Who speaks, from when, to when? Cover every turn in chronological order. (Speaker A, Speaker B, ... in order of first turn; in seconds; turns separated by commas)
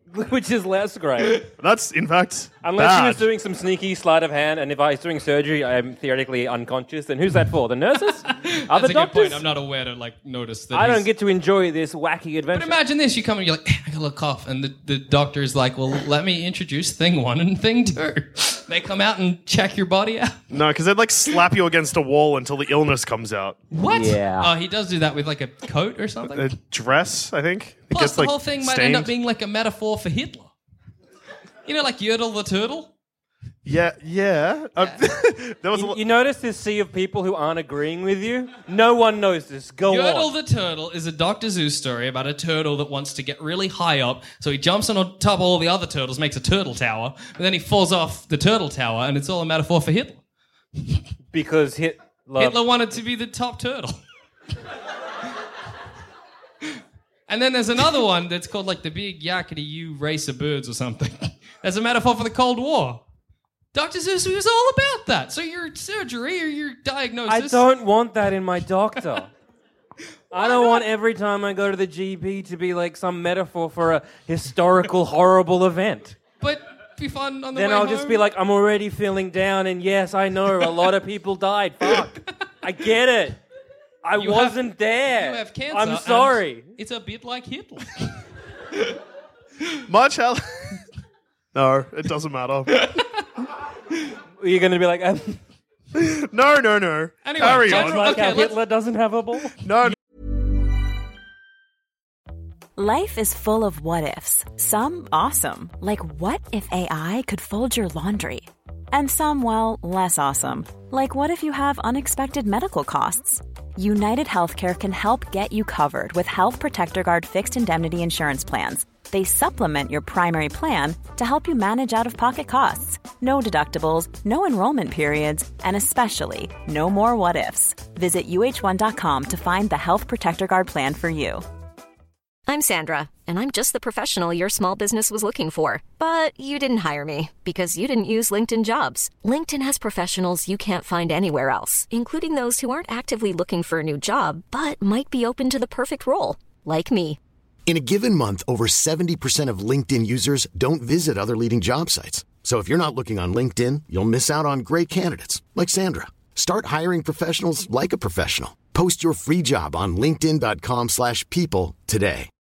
Speaker A: 0.1-1.4, Speaker B: 1.6-3.3, Speaker A: 2.6-9.4, Speaker C: 8.2-11.1, Speaker A: 10.7-12.8, Speaker C: 12.5-20.4, Speaker B: 20.5-23.6, Speaker C: 23.7-26.5, Speaker A: 23.9-24.5, Speaker B: 26.3-29.1, Speaker C: 27.9-30.5, Speaker C: 31.6-32.9, Speaker B: 33.6-36.0, Speaker A: 35.7-40.3, Speaker C: 39.9-50.2, Speaker A: 51.3-52.6, Speaker C: 52.4-54.0, Speaker C: 57.3-63.0, Speaker C: 63.7-67.7, Speaker A: 67.3-69.3, Speaker C: 70.3-70.9, Speaker A: 70.3-76.2, Speaker C: 76.4-78.3, Speaker A: 77.5-83.4, Speaker A: 84.0-86.7, Speaker C: 84.2-88.1, Speaker B: 89.9-90.8, Speaker B: 91.5-93.0, Speaker C: 92.8-93.1, Speaker A: 94.4-95.4, Speaker B: 95.9-98.3, Speaker C: 97.2-98.6, Speaker A: 97.5-99.5, Speaker B: 99.6-100.0, Speaker D: 102.8-131.4, Speaker E: 132.5-147.2, Speaker F: 147.7-162.3